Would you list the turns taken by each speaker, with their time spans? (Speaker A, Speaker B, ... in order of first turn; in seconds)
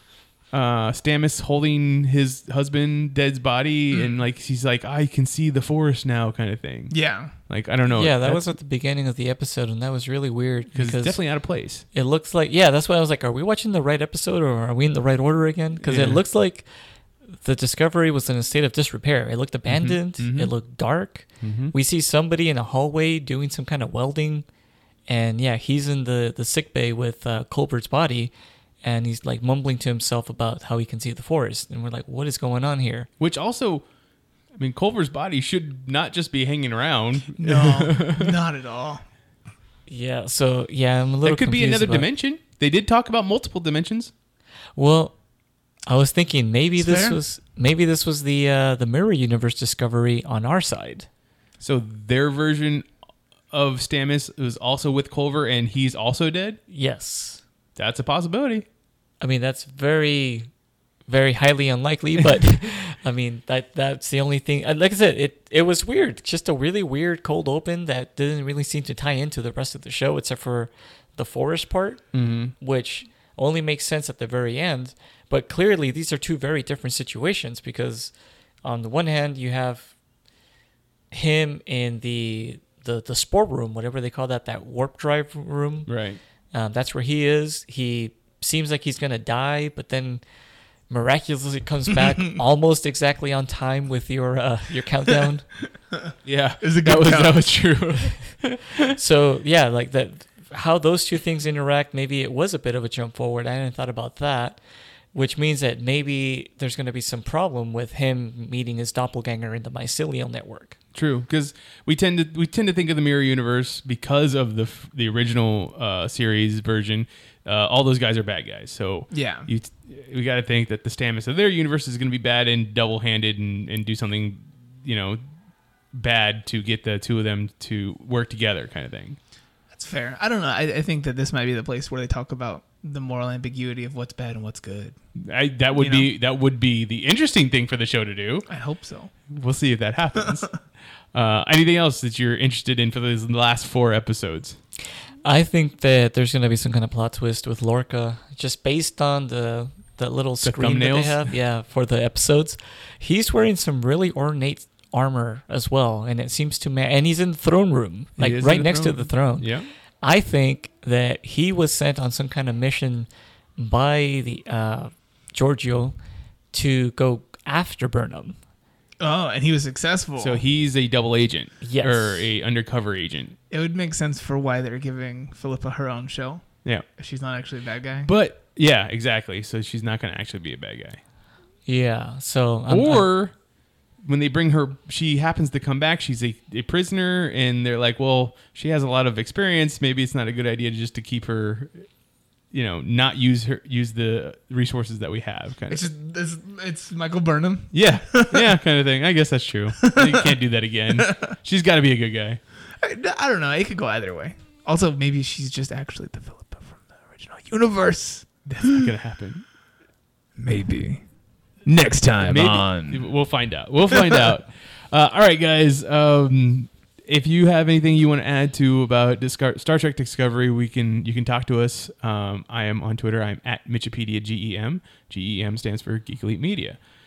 Speaker A: 0.5-8.4, 10.7-11.8, 15.8-16.2, 19.7-20.5, 21.4-21.7, 33.2-33.8, 34.6-38.4, 41.2-44.1, 51.6-52.8, 53.5-56.6, 57.8-58.6, 72.1-72.5, 85.9-86.2, 96.2-98.8, 110.9-125.2, 125.9-129.2, 135.2-138.5, 139.3-140.6, 141.1-144.6, 150.4-151.3, 158.2-159.7, 170.2-173.3, 178.0-181.0, 182.7-183.3, 184.0-191.8, 192.5-195.8, 197.7-202.4, 208.6-209.4, 212.2-226.8
Speaker B: 3.9-4.2, 6.9-7.3, 37.4-39.0, 46.8-47.2, 96.6-97.5, 119.1-119.5, 129.7-134.9, 135.7-136.1, 138.5-139.1, 169.0-170.4, 173.5-178.1, 195.7-198.6, 199.8-201.3, 202.7-208.9, 210.4-211.0, 211.6-213.1, 213.9-214.3
Speaker C: 8.0-11.2, 11.9-16.7, 17.3-24.4, 25.1-28.3, 28.8-33.1, 39.9-42.1, 44.8-45.1, 45.9-51.1, 56.7-57.4, 59.2-60.5, 61.1-78.1, 78.6-79.9, 81.1-85.9, 86.5-90.2, 90.9-95.5, 98.9-104.6, 105.1-110.8, 145.2-159.5, 160.0-165.9, 166.5-168.4, 171.6-172.3, 181.7-183.1